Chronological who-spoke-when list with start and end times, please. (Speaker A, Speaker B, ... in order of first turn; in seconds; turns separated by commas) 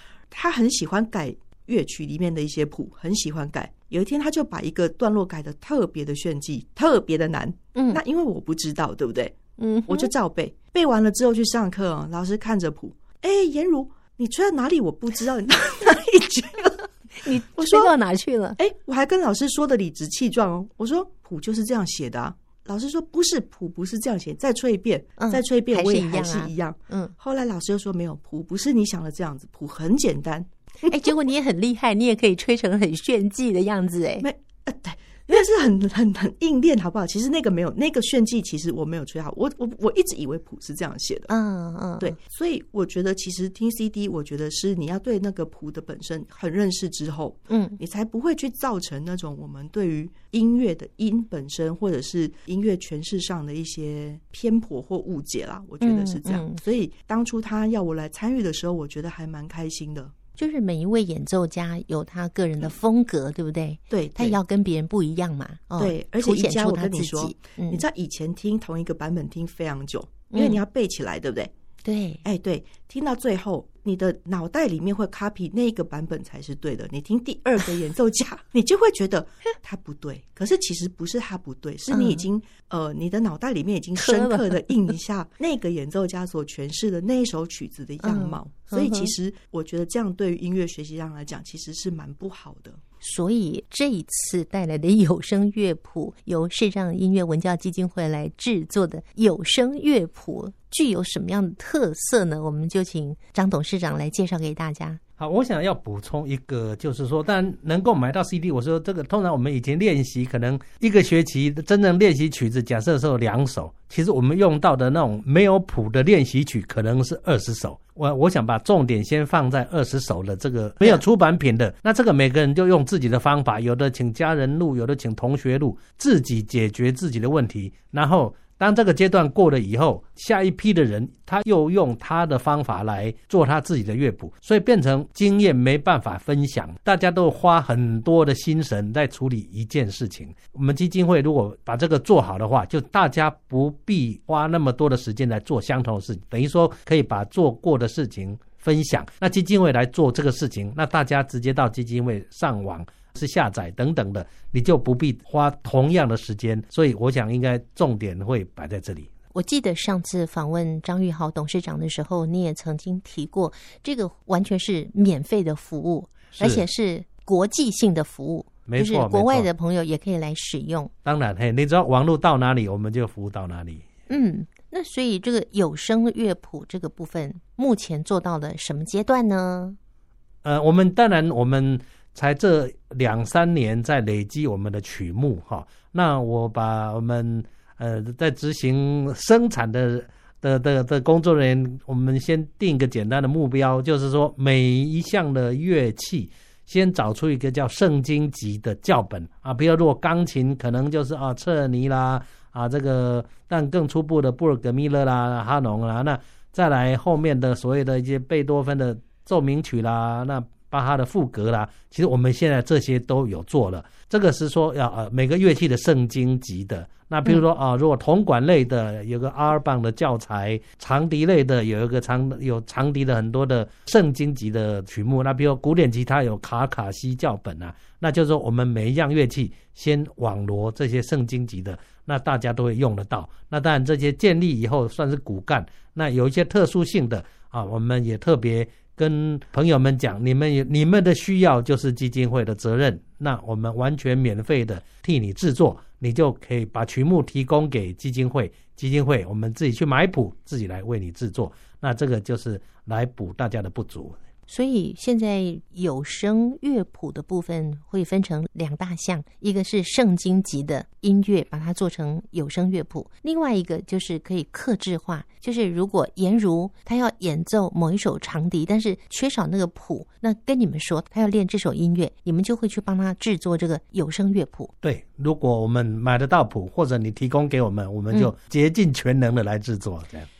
Speaker A: 0.3-17.9, Speaker B: 7.8-8.0, Speaker B: 9.6-10.1, Speaker B: 17.2-18.6, Speaker A: 18.6-31.1, Speaker B: 25.2-27.1, Speaker B: 30.9-34.3, Speaker A: 34.2-41.3, Speaker B: 41.3-42.2, Speaker A: 42.0-60.2, Speaker B: 47.5-47.8, Speaker B: 55.8-56.6, Speaker B: 60.4-67.8, Speaker A: 63.9-64.4, Speaker A: 65.8-71.5, Speaker B: 70.3-70.6, Speaker B: 71.8-72.2, Speaker A: 72.2-92.8, Speaker B: 81.9-82.2, Speaker B: 84.0-84.9, Speaker B: 88.0-89.1, Speaker B: 93.0-105.0, Speaker C: 105.2-159.1, Speaker B: 159.3-170.9, Speaker C: 166.4-166.7, Speaker C: 168.7-169.5, Speaker C: 171.1-173.8, Speaker B: 174.1-179.8, Speaker C: 180.4-254.2, Speaker B: 254.5-274.7, Speaker C: 274.8-280.3